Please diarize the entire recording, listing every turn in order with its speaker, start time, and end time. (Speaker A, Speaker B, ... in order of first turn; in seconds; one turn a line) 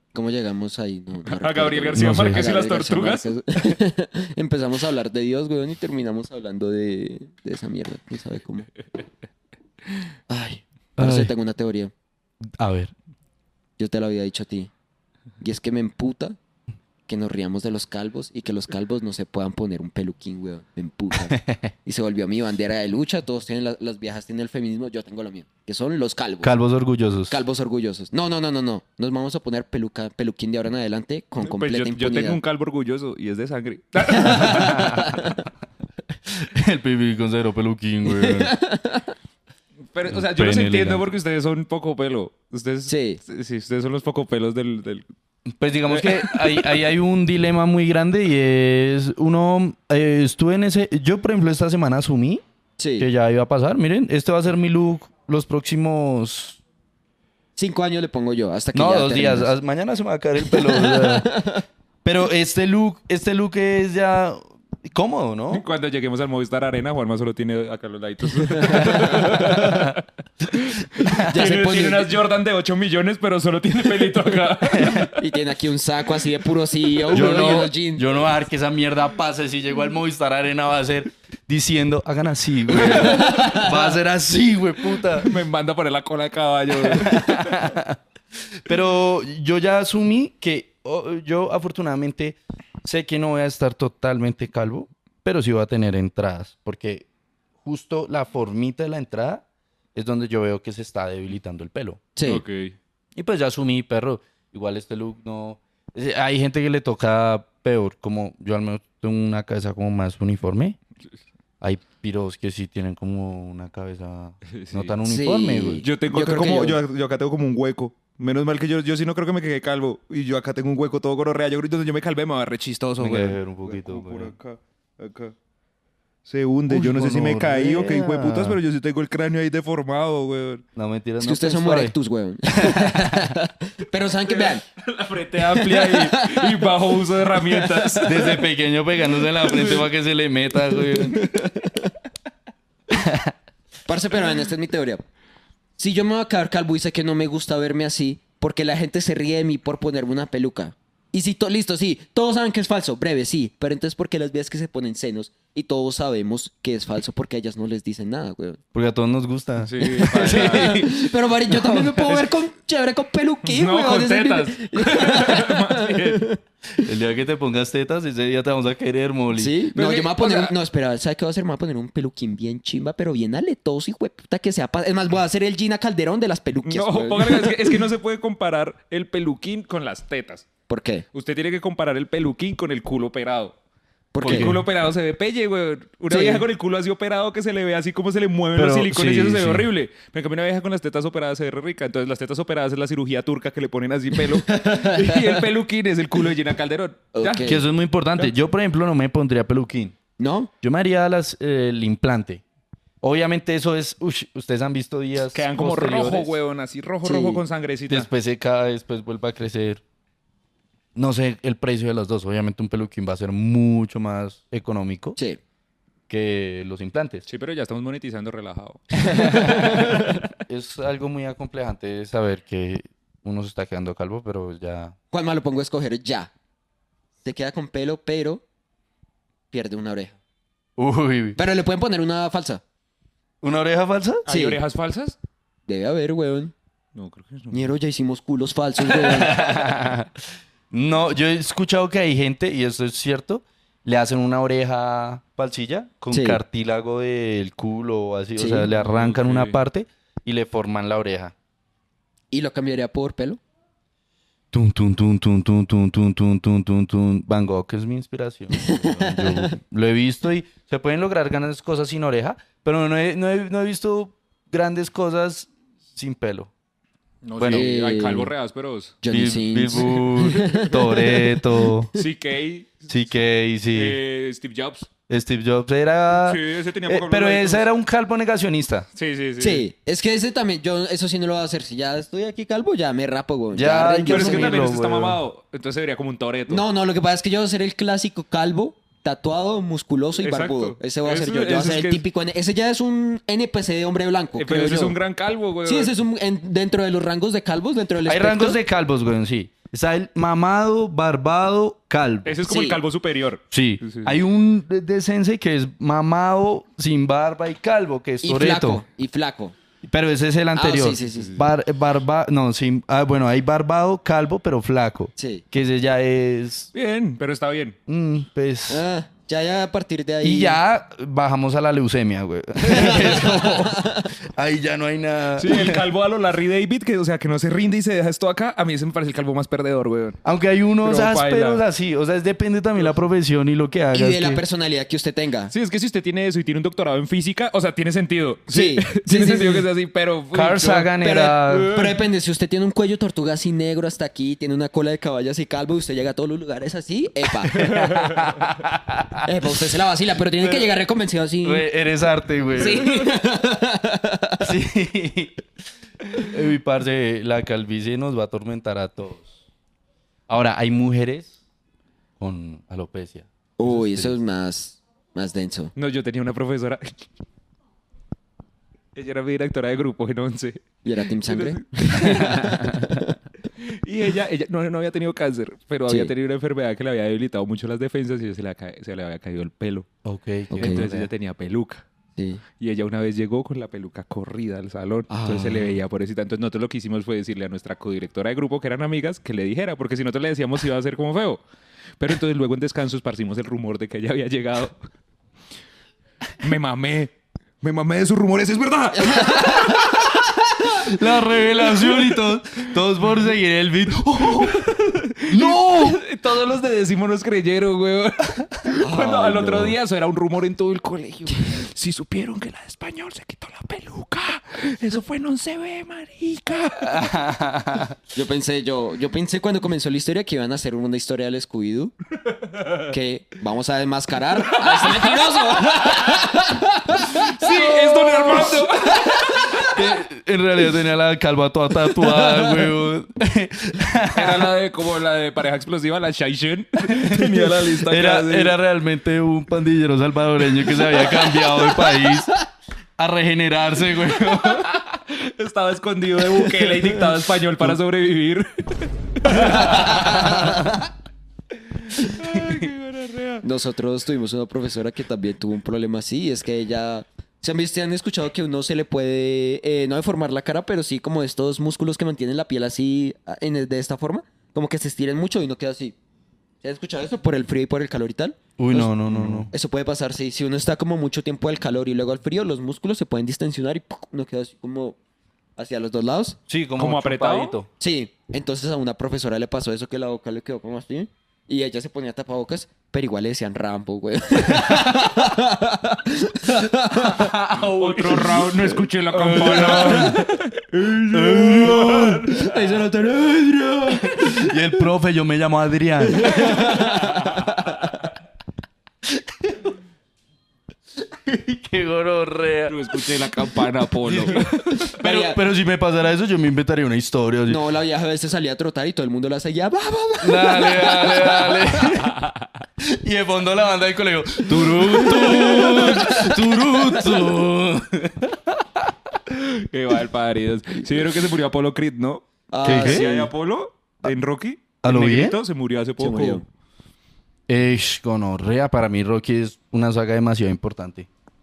Speaker A: 0.1-8.7
Speaker B: 1.2-3.3
Speaker C: 1.9-2.5
Speaker A: 10.3-11.9
Speaker C: 11.0-11.3
Speaker C: 12.4-12.9
Speaker A: 13.8-14.7
Speaker A: 15.4-16.4
Speaker A: 17.1-26.5
Speaker C: 21.3-21.7
Speaker C: 26.4-27.4
Speaker A: 27.3-32.4
Speaker B: 31.4-35.0
Speaker A: 34.1-35.3
Speaker C: 34.3-35.2
Speaker C: 36.3-38.5
Speaker A: 38.0-39.1
Speaker B: 39.9-45.0
Speaker C: 40.1-41.0
Speaker A: 42.9-43.2
Speaker C: 45.5-52.4
Speaker B: 45.9-46.7
Speaker A: 52.8-53.1
Speaker C: 53.0-56.6
Speaker A: 57.5-59.5
Speaker C: 58.7-61.4
Speaker A: 60.4-61.6
Speaker C: 62.0-65.6
Speaker B: 65.5-70.0
Speaker A: 68.6-69.6
Speaker C: 68.8-69.9
Speaker B: 70.5-75.1
Speaker C: 71.0-71.2
Speaker A: 71.2-72.1
Speaker C: 74.8-75.1
Speaker A: 75.1-78.2
Speaker C: 77.1-85.3
Speaker A: 83.0-83.7
Speaker B: 85.2-87.7
Speaker C: 86.9-88.0
Speaker C: 88.6-97.0
Speaker C: 97.6-99.4
Speaker C: 99.9-102.0
Speaker A: 102.2-102.4
Speaker B: 102.2-102.7
Speaker C: 103.2-110.8
Speaker C: 111.6-115.8
Speaker B: 114.5-114.9
Speaker A: 115.0-116.8
Speaker B: 115.8-125.3
Speaker C: 123.0-124.3
Speaker B: 126.2-130.6
Speaker C: 126.7-128.6
Speaker C: 130.8-131.9
Speaker A: 131.2-134.6
Speaker C: 132.5-133.3
Speaker B: 134.3-138.4
Speaker A: 135.4-138.3
Speaker C: 138.0-141.3
Speaker B: 139.4-139.8
Speaker A: 141.2-141.9
Speaker C: 142.9-143.3
Speaker A: 143.8-145.0
Speaker A: 145.8-158.6
Speaker C: 158.7-162.0
Speaker B: 159.6-160.8
Speaker A: 160.0-166.4
Speaker B: 163.4-166.3
Speaker C: 166.8-169.6
Speaker A: 169.3-177.8
Speaker B: 169.7-170.5
Speaker B: 176.6-180.5
Speaker A: 180.7-181.1
Speaker B: 181.1-183.6
Speaker A: 184.1-184.6
Speaker C: 184.2-184.6
Speaker B: 184.2-197.6
Speaker A: 186.1-186.4
Speaker C: 188.6-189.7
Speaker A: 194.3-195.4
Speaker A: 197.1-197.6
Speaker C: 197.4-200.0
Speaker A: 200.2-200.5
Speaker C: 200.6-202.4
Speaker C: 203.0-206.3
Speaker B: 205.3-208.1
Speaker A: 207.0-207.4
Speaker C: 207.9-209.8
Speaker C: 210.9-215.2
Speaker C: 216.1-217.2
Speaker B: 217.3-219.7
Speaker C: 219.0-224.9
Speaker A: 219.2-220.1
Speaker A: 225.1-226.3
Speaker A: 227.2-228.4
Speaker A: 229.5-230.2
Speaker C: 230.8-231.4
Speaker A: 231.3-232.6
Speaker C: 233.4-234.2
Speaker A: 234.2-234.6
Speaker B: 234.2-235.2
Speaker A: 235.7-236.5
Speaker B: 236.9-237.7
Speaker A: 237.5-239.4
Speaker C: 239.0-240.1
Speaker C: 240.7-251.3
Speaker A: 246.1-246.4
Speaker A: 248.4-248.7
Speaker B: 248.7-249.6
Speaker A: 252.3-253.4
Speaker C: 254.5-266.5
Speaker A: 258.6-259.5
Speaker B: 267.2-268.9
Speaker C: 267.4-267.7
Speaker A: 267.5-268.3
Speaker A: 269.0-272.1
Speaker C: 269.1-271.9
Speaker B: 271.9-272.9
Speaker C: 272.9-274.0
Speaker B: 273.7-274.9
Speaker C: 275.1-278.9
Speaker B: 276.2-277.7
Speaker B: 278.9-279.7
Speaker A: 279.4-284.6
Speaker C: 283.5-285.2
Speaker B: 284.1-286.6
Speaker A: 286.5-295.0
Speaker B: 290.2-292.0
Speaker B: 294.4-295.9
Speaker A: 295.6-298.6
Speaker C: 298.1-302.4
Speaker B: 302.2-304.1
Speaker A: 302.4-302.8
Speaker C: 303.5-308.8
Speaker A: 308.2-309.6
Speaker C: 309.8-316.7
Speaker A: 310.5-311.4
Speaker B: 311.1-311.4
Speaker A: 315.2-315.4
Speaker B: 316.7-317.8
Speaker C: 317.9-318.8
Speaker A: 318.7-320.6
Speaker C: 320.2-325.8
Speaker A: 322.6-324.1
Speaker B: 325.4-330.2
Speaker C: 330.2-334.4
Speaker B: 330.8-331.6
Speaker A: 333.9-335.5
Speaker B: 335.5-340.9
Speaker A: 338.5-339.7
Speaker C: 340.3-341.7
Speaker A: 341.0-347.6
Speaker C: 347.5-349.2
Speaker B: 347.6-348.1
Speaker A: 349.2-351.7
Speaker C: 351.4-353.1
Speaker A: 352.6-354.5
Speaker C: 354.4-355.4
Speaker C: 356.1-359.3
Speaker C: 360.3-361.4
Speaker C: 362.2-364.1
Speaker A: 363.6-365.7
Speaker B: 365.8-367.1
Speaker B: 368.9-372.6
Speaker A: 370.8-373.1
Speaker C: 372.1-372.5
Speaker B: 373.6-379.9
Speaker A: 375.9-376.1
Speaker C: 380.0-381.1
Speaker A: 380.5-380.9
Speaker B: 380.5-381.8
Speaker A: 382.1-382.4
Speaker B: 382.6-391.4
Speaker A: 385.1-385.7
Speaker B: 392.0-394.8
Speaker B: 396.4-400.1
Speaker A: 398.9-400.0
Speaker C: 400.8-404.7
Speaker B: 401.6-402.2
Speaker B: 404.2-417.1
Speaker C: 405.2-406.1
Speaker A: 408.8-409.8
Speaker C: 416.8-418.0
Speaker A: 418.1-421.9
Speaker A: 422.9-429.7
Speaker B: 424.5-426.2
Speaker B: 427.1-429.7
Speaker C: 429.6-434.5
Speaker A: 432.0-432.7
Speaker B: 434.1-438.6
Speaker C: 436.9-442.3
Speaker A: 440.9-442.4
Speaker C: 443.0-444.7
Speaker B: 444.3-450.5
Speaker A: 446.4-446.9
Speaker A: 449.3-450.7
Speaker C: 450.4-450.8
Speaker B: 452.0-453.4
Speaker A: 453.4-465.9
Speaker A: 466.6-475.0
Speaker C: 468.6-469.5
Speaker A: 475.6-476.4
Speaker C: 476.5-477.7
Speaker B: 476.8-477.6
Speaker A: 477.8-487.3
Speaker C: 484.5-484.9
Speaker C: 487.0-490.2
Speaker B: 487.6-492.6
Speaker A: 489.4-490.2
Speaker A: 490.7-494.6
Speaker C: 491.1-492.2
Speaker C: 494.1-496.8
Speaker A: 496.1-497.9
Speaker B: 496.4-497.4
Speaker C: 499.1-499.6
Speaker C: 501.1-503.1
Speaker B: 502.7-504.9
Speaker C: 504.0-507.6
Speaker A: 505.0-505.4
Speaker A: 507.4-511.8
Speaker C: 510.2-512.2
Speaker C: 512.8-518.6
Speaker A: 514.6-516.9
Speaker B: 519.3-526.4
Speaker A: 522.5-523.3
Speaker C: 522.6-523.1
Speaker C: 524.8-525.4
Speaker A: 526.0-526.4
Speaker C: 527.5-531.1